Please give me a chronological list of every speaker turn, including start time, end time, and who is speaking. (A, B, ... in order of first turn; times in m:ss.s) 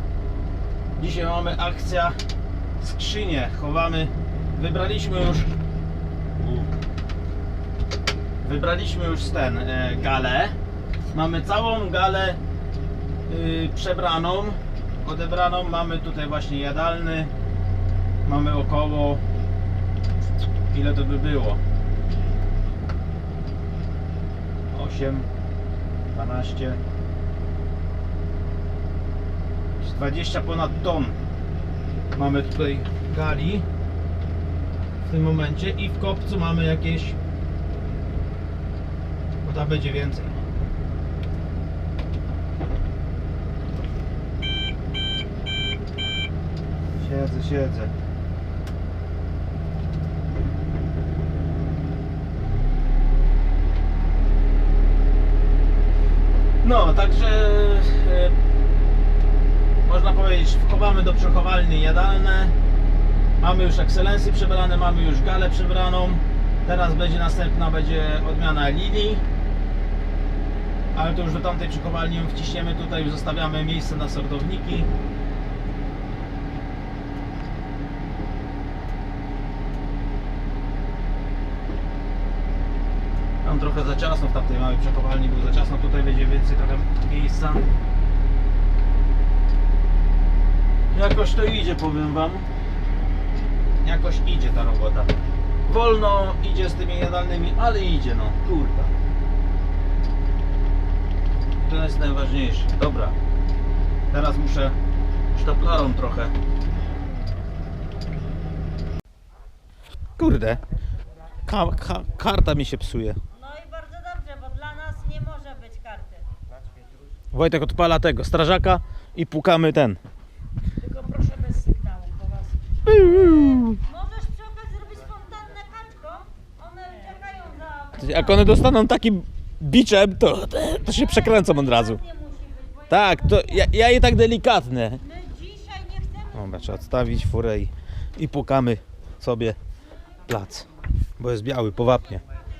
0:01.0-0:02.2 A
0:02.8-0:05.5 A
0:06.4-0:06.7 A
0:08.4-0:10.6 A
0:11.1-0:12.4 A
0:13.3-0:17.3 A
0:18.2-0:19.2 A
0:20.7-0:21.6 A
0:24.7-0:25.3 A
0:26.1-0:26.8 A
0:29.8-0:31.2 A
0:32.1-0:33.7 A
0:35.0-0:37.2 A
0:39.4-0:40.4 A
0:47.0-0:47.9 A
0:56.6-0:58.4 A
0:59.8-1:02.6 A
1:03.4-1:09.2 A
1:11.0-1:14.9 A
1:23.4-1:27.7 A
1:30.9-1:32.5 A
1:33.8-1:35.1 A
1:35.7-1:38.9 A
1:41.6-1:43.2 A
1:44.1-1:44.8 A
1:45.3-1:46.3 A
1:50.2-1:50.6 A
1:51.4-1:53.2 A
1:53.5-1:56.2 B
1:57.3-2:00.0 A
2:01.1-2:02.3 B
2:02.8-2:03.9 A
2:04.0-2:07.8 B
2:07.9-2:12.1 A
2:12.9-2:15.2 A
2:15.5-2:16.0 B
2:16.2-2:19.6 A
2:20.3-2:22.2 A